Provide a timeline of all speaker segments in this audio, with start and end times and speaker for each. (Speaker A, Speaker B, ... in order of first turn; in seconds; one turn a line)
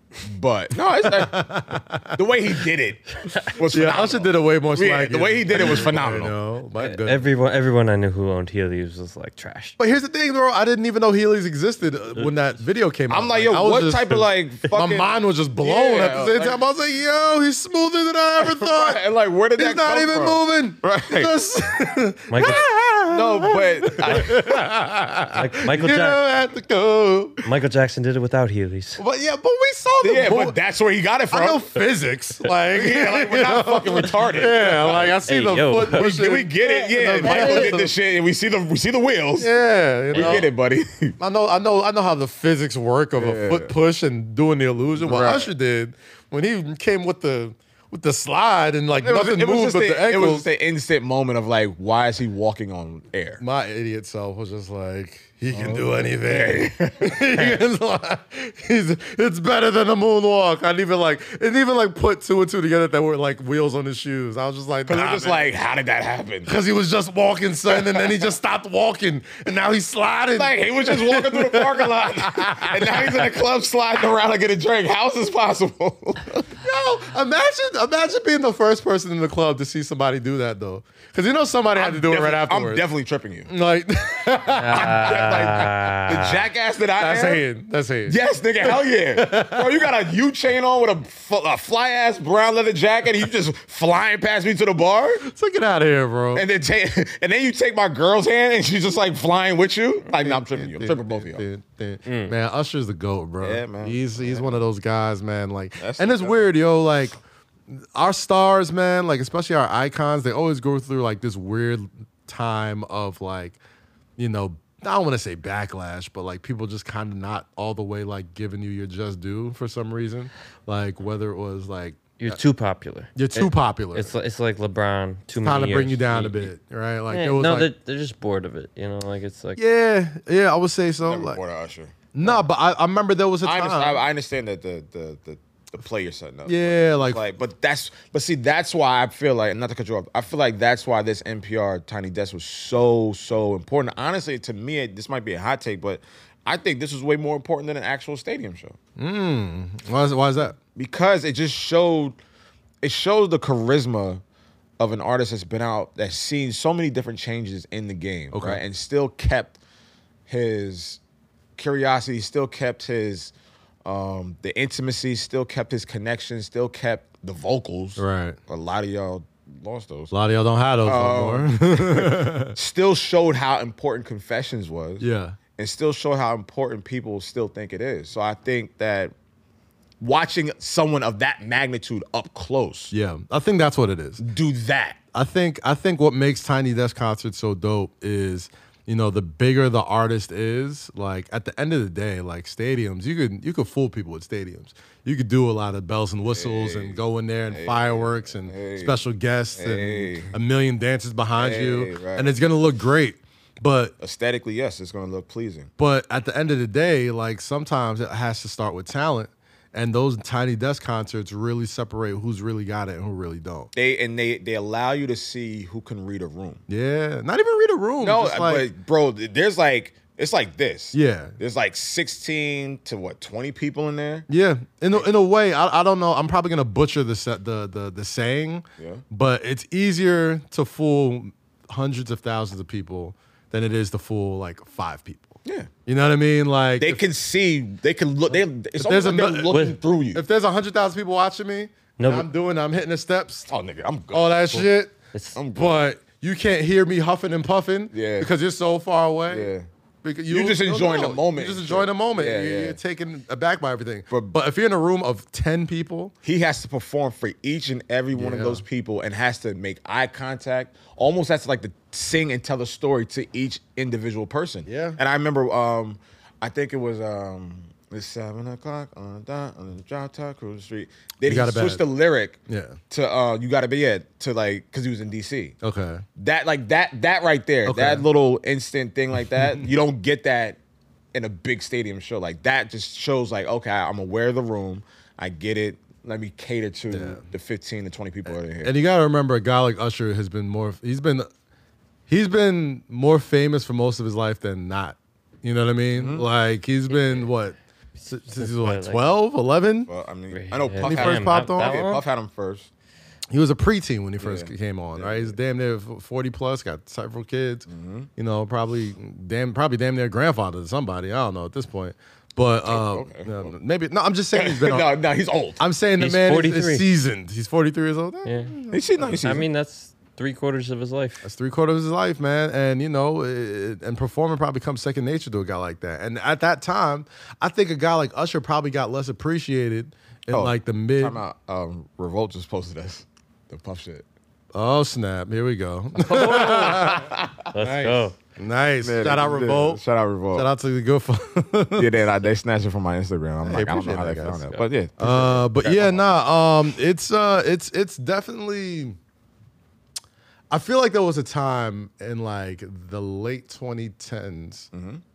Speaker A: 0.2-1.4
Speaker B: 1.0-2.4
Speaker A: 2.1-6.3
Speaker B: 3.7-7.3
Speaker C: 6.8-9.8
Speaker B: 9.8-19.0
Speaker A: 13.1-16.6
Speaker A: 18.4-21.4
Speaker B: 19.6-27.4
Speaker C: 22.3-22.6
Speaker A: 23.1-24.4
Speaker C: 25.3-26.2
Speaker C: 27.4-29.0
Speaker B: 29.0-30.6
Speaker A: 30.0-31.6
Speaker B: 31.3-37.9
Speaker A: 32.7-35.1
Speaker C: 35.0-36.1
Speaker A: 35.9-39.5
Speaker C: 37.2-37.8
Speaker B: 39.4-40.5
Speaker A: 40.1-41.1
Speaker C: 40.1-40.4
Speaker B: 41.2-50.5
Speaker A: 43.2-43.7
Speaker A: 45.0-45.5
Speaker A: 49.0-53.4
Speaker B: 53.4-65.5
Speaker A: 55.5-57.6
Speaker A: 64.9-66.5
Speaker B: 66.4-73.3
Speaker A: 67.7-68.2
Speaker A: 70.3-76.4
Speaker B: 76.6-82.8
Speaker A: 81.7-83.5
Speaker B: 83.5-85.7
Speaker C: 84.5-86.4
Speaker A: 84.7-87.4
Speaker B: 87.0-89.9
Speaker A: 88.0-95.2
Speaker B: 95.2-96.5
Speaker A: 96.3-101.5
Speaker B: 100.1-107.2
Speaker C: 102.0-102.3
Speaker A: 103.4-104.6
Speaker A: 105.8-106.5
Speaker B: 107.7-113.6
Speaker B: 114.2-122.4
Speaker C: 122.2-126.5
Speaker B: 123.2-124.1
Speaker B: 125.4-127.7
Speaker C: 127.1-129.6
Speaker B: 129.6-131.4
Speaker A: 131.0-132.3
Speaker B: 132.1-134.0
Speaker A: 133.4-148.8
Speaker B: 136.4-137.2
Speaker B: 149.0-150.6
Speaker A: 150.7-152.2
Speaker A: 152.8-154.2
Speaker A: 154.8-159.6
Speaker B: 158.3-158.6
Speaker A: 160.3-161.0
Speaker A: 161.6-163.3
Speaker A: 163.8-170.1
Speaker B: 168.0-168.4
Speaker B: 170.1-172.6
Speaker A: 170.8-179.1
Speaker B: 175.0-175.4
Speaker A: 180.0-182.9
Speaker B: 182.9-184.2
Speaker A: 184.2-185.0
Speaker B: 185.1-203.9
Speaker A: 196.3-199.0
Speaker A: 199.5-200.3
Speaker A: 201.3-202.3
Speaker A: 204.0-205.7
Speaker B: 205.8-213.7
Speaker A: 213.7-216.6
Speaker B: 216.7-218.7
Speaker A: 218.0-224.3
Speaker B: 220.9-221.3
Speaker B: 224.3-237.0
Speaker A: 228.8-229.0
Speaker A: 236.8-240.2
Speaker B: 238.8-239.6
Speaker C: 239.5-239.8
Speaker B: 240.1-243.5
Speaker C: 242.0-242.3
Speaker A: 243.5-244.6
Speaker B: 244.1-244.9
Speaker A: 245.3-245.8
Speaker B: 245.5-249.5
Speaker A: 247.9-248.3
Speaker A: 249.3-249.7
Speaker B: 250.0-256.1
Speaker A: 250.3-252.8
Speaker A: 254.1-254.4
Speaker A: 256.2-272.4
Speaker B: 258.1-258.6
Speaker B: 264.6-265.0
Speaker B: 271.2-271.8
Speaker B: 272.5-272.8
Speaker A: 272.9-275.5
Speaker B: 275.6-276.0
Speaker A: 276.2-280.6
Speaker B: 277.6-278.1
Speaker B: 279.4-279.7
Speaker A: 281.1-288.7
Speaker B: 286.9-287.2
Speaker B: 288.3-291.3
Speaker B: 292.1-297.6
Speaker A: 295.9-296.2
Speaker C: 296.9-297.2
Speaker C: 298.0-299.0
Speaker B: 298.1-299.9
Speaker A: 299.9-302.7
Speaker C: 300.3-302.0
Speaker B: 300.8-302.0
Speaker B: 303.3-314.9
Speaker A: 304.2-305.3
Speaker A: 307.7-308.1
Speaker A: 312.6-313.5
Speaker A: 314.3-315.6
Speaker B: 315.6-319.2
Speaker C: 316.0-316.9
Speaker C: 318.2-318.6
Speaker A: 318.7-319.5
Speaker C: 319.2-321.2
Speaker B: 321.2-331.2
Speaker A: 330.3-334.0
Speaker B: 334.5-339.8
Speaker A: 336.0-337.5
Speaker C: 336.1-336.9
Speaker C: 337.5-338.1
Speaker A: 338.8-340.5
Speaker B: 340.3-341.9
Speaker A: 341.8-346.1
Speaker B: 343.4-349.0
Speaker B: 350.5-354.7
Speaker A: 354.7-355.0